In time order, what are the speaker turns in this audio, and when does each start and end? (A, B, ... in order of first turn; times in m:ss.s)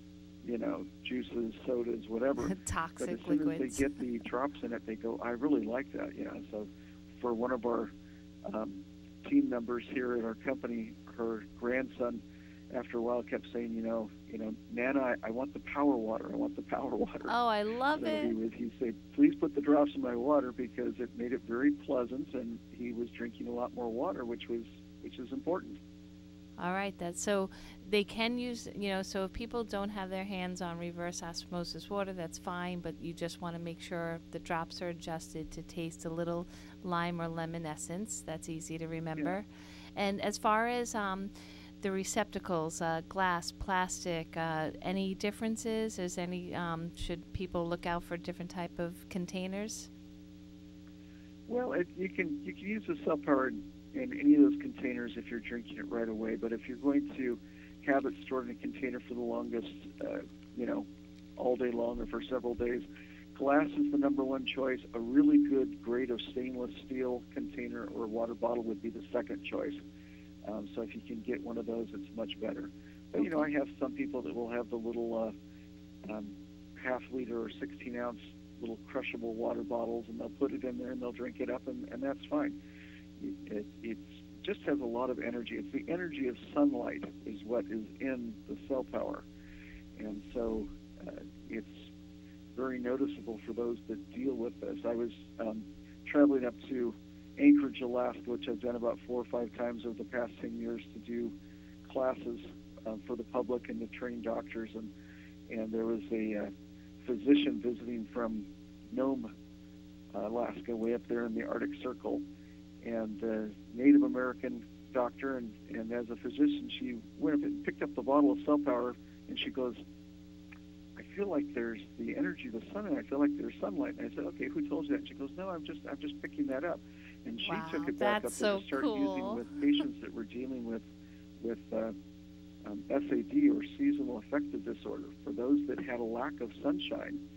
0:00.4-0:07.9 A
0:02.4-0:03.9 B
0:08.5-0:17.3 A
0:17.3-0:18.3 B
0:18.0-0:25.8 A
0:26.6-0:41.3 B
0:41.8-0:49.9 B
0:51.5-1:09.8 A
1:10.4-1:15.3 A
1:13.2-1:13.5 B
1:16.0-1:22.6 A
1:23.2-1:29.2 A
1:30.0-1:31.9 A
1:32.6-1:41.3 A
1:41.9-1:44.9 A
1:45.5-1:46.5 A
1:47.0-1:49.3 A
1:50.1-1:52.2 A
1:52.8-1:59.8 A
2:01.0-2:10.9 A
2:07.4-2:09.4 B
2:11.4-2:12.0 A
2:12.6-2:17.2 A